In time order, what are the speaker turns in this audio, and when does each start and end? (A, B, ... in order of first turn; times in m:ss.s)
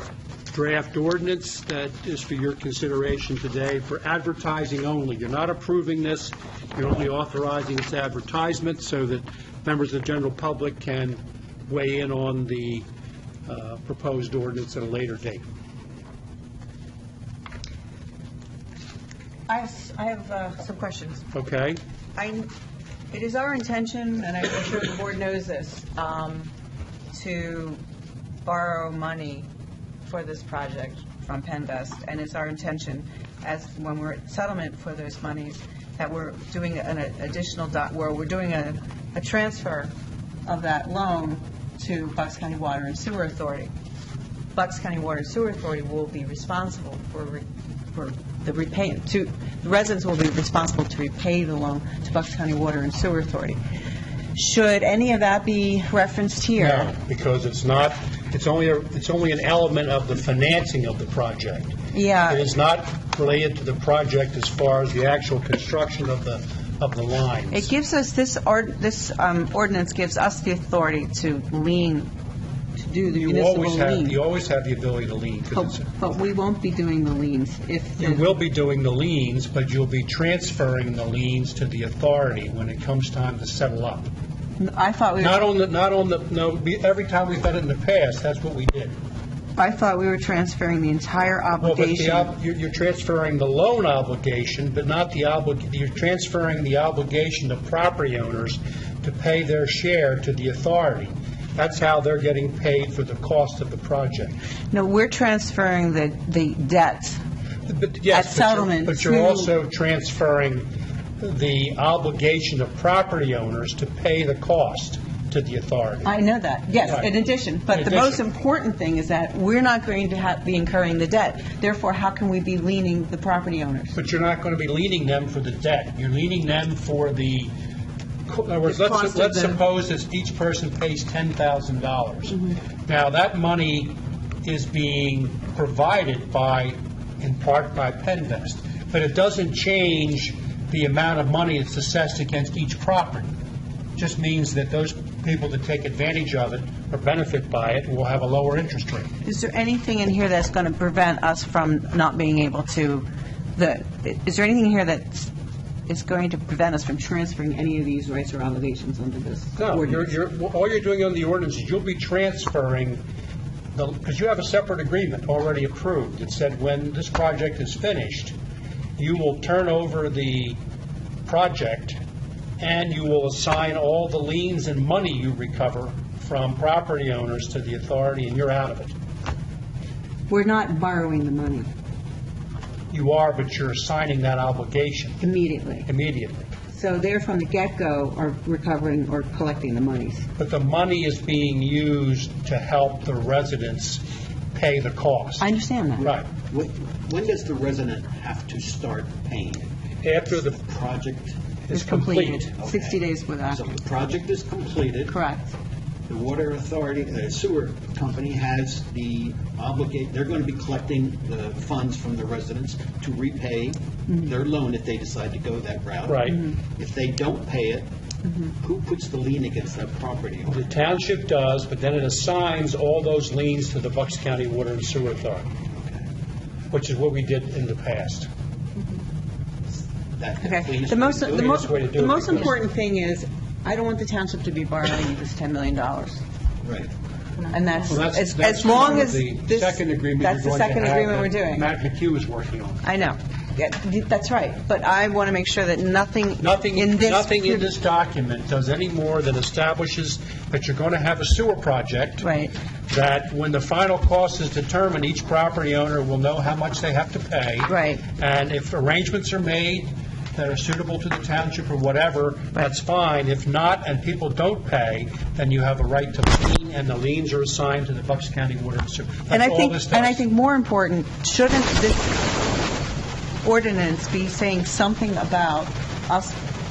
0:00.5-0:12.8 A
0:13.5-0:15.4 A
0:19.5-0:21.3 B
0:21.3-0:21.8 A
0:22.1-0:22.5 B
0:23.1-0:26.5 B
0:27.1-0:27.8 B
0:28.4-0:29.5 B
0:30.0-0:39.9 B
0:40.4-0:43.7 B
0:44.5-0:53.6 B
0:54.3-0:56.9 B
0:56.6-1:07.7 A
1:01.9-1:02.5 B
1:07.5-1:12.1 B
1:12.8-1:14.2 B
1:13.1-1:15.9 A
1:15.5-1:18.3 B
1:18.0-1:24.1 A
1:24.6-1:25.4 B
1:25.2-1:28.9 A
1:29.6-1:32.3 B
1:31.6-1:44.4 A
1:44.7-1:47.2 B
1:47.7-1:50.7 A
1:48.1-1:49.5 B
1:51.2-1:56.1 A
1:56.0-2:03.9 B
1:57.7-1:58.2 A
2:03.9-2:07.5 A
2:08.3-2:23.3 A
2:08.7-2:09.6 B
2:24.0-2:29.1 A
2:29.2-2:35.3 B
2:35.9-2:40.1 B
2:39.6-2:43.0 A
2:43.8-2:48.3 A
2:49.0-2:50.6 A
2:51.2-2:52.0 A
2:52.6-2:58.9 A
3:00.3-3:01.7 B
3:02.9-3:05.2 A
3:05.2-3:05.9 B
3:05.8-3:06.5 A
3:06.7-3:10.2 B
3:10.4-3:14.0 A
3:14.5-3:15.4 A
3:15.4-3:16.1 B
3:16.0-3:16.3 A
3:16.5-3:19.7 C
3:20.0-3:20.6 A
3:20.6-3:21.4 C
3:21.7-3:22.4 A
3:21.7-3:23.6 B
3:22.6-3:25.2 C
3:25.1-3:25.5 B
3:26.1-3:37.9 C
3:36.1-3:36.4 A
3:38.6-3:40.7 C
3:40.5-3:45.5 A
3:46.7-3:48.3 A
3:50.2-3:51.6 C
3:50.4-3:56.2 B
3:51.2-3:52.6 A
3:56.6-3:56.9 C
3:57.5-4:01.7 B
3:57.8-4:02.8 A
4:02.8-4:07.7 B
4:06.4-4:12.3 A
4:12.2-4:12.5 B
4:12.9-4:30.2 A
4:17.7-4:18.0 B
4:29.3-4:32.4 B
4:33.4-4:36.4 B